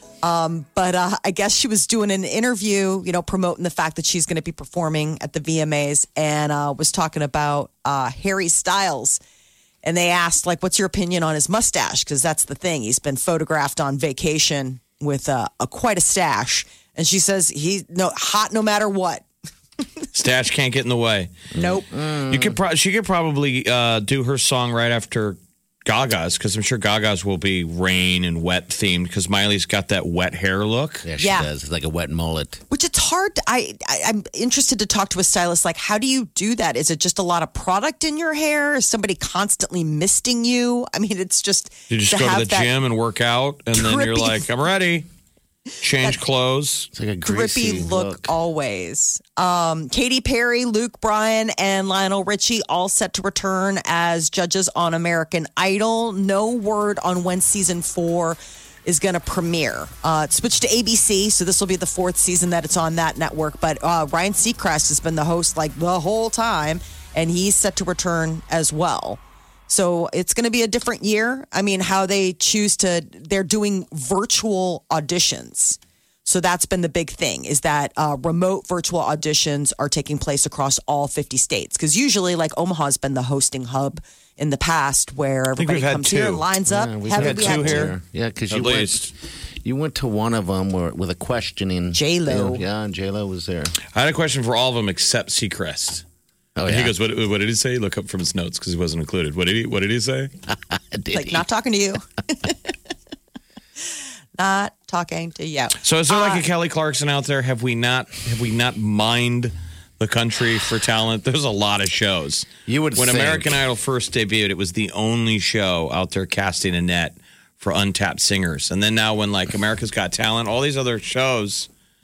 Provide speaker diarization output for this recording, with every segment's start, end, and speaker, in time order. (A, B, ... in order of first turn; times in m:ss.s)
0:00.2-0:09.2 A
0:09.8-0:19.2 A
0:20.1-0:21.3 B
0:21.5-0:22.6 C
0:21.6-0:21.8 A
0:22.3-0:31.0 B
0:31.0-0:32.6 C
0:31.2-0:31.5 A
0:32.7-0:42.7 A
0:41.9-0:45.0 B
0:43.7-0:44.4 A
0:45.8-0:46.9 B
0:46.9-0:48.3 C
0:47.2-1:27.9 A
1:25.6-1:26.5 B
1:26.7-1:33.7 C
1:27.1-1:27.9 B
1:28.5-1:29.1 B
1:31.9-1:32.6 A
1:33.9-1:36.0 B
1:36.6-1:36.9 C
1:36.7-1:40.3 B
1:40.5-1:41.4 C
1:41.1-1:42.6 A
1:44.4-1:46.4 A
1:45.8-2:01.7 B
1:52.7-1:53.6 C